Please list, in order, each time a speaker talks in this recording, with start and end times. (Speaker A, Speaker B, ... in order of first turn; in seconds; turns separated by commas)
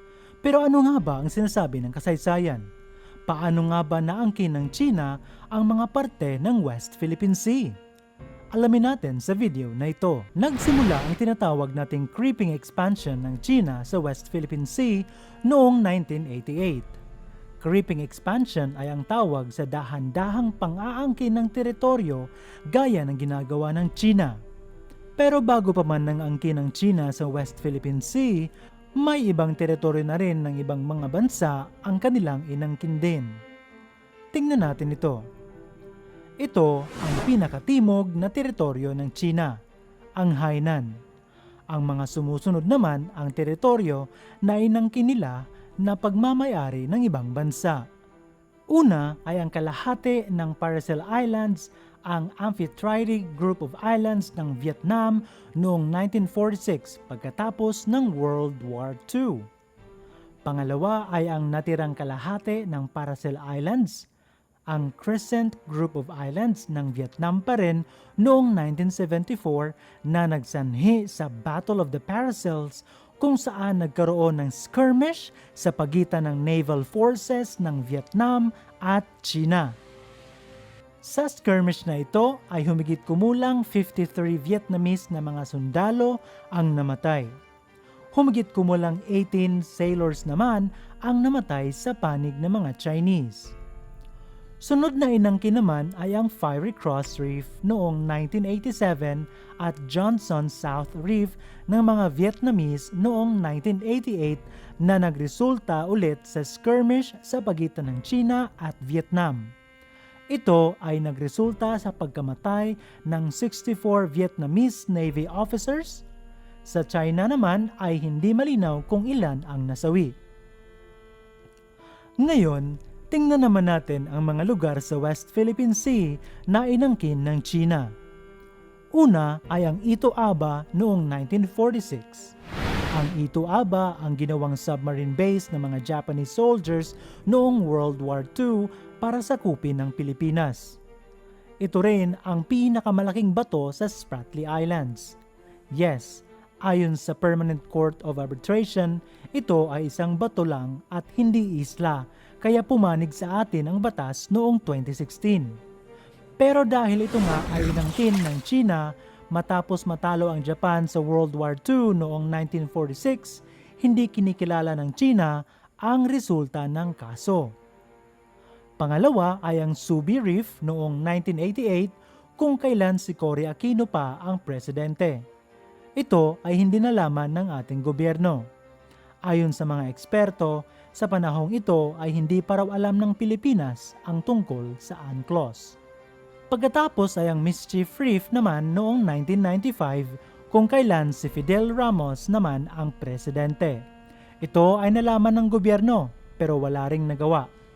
Speaker A: 0.4-2.7, Speaker A: 3.3-7.8, Speaker A: 8.5-16.9, Speaker A: 17.6-24.4, Speaker A: 25.2-33.4, Speaker A: 34.3-35.3, Speaker A: 36.4-39.6, Speaker A: 40.2-41.0, Speaker A: 41.7-47.9, Speaker A: 48.7-59.5, Speaker A: 60.5-64.1, Speaker A: 64.7-79.8, Speaker A: 81.0-87.3, Speaker A: 88.1-93.6, Speaker A: 94.6-109.5, Speaker A: 110.3-116.0, Speaker A: 116.7-120.2, Speaker A: 122.2-127.9, Speaker A: 128.9-132.3, Speaker A: 132.9-140.8, Speaker A: 141.6-145.2, Speaker A: 145.7-155.6, Speaker A: 156.4-167.5, Speaker A: 168.8-175.2, Speaker A: 176.0-178.5, Speaker A: 179.3-185.8, Speaker A: 186.5-193.9, Speaker A: 194.4-197.5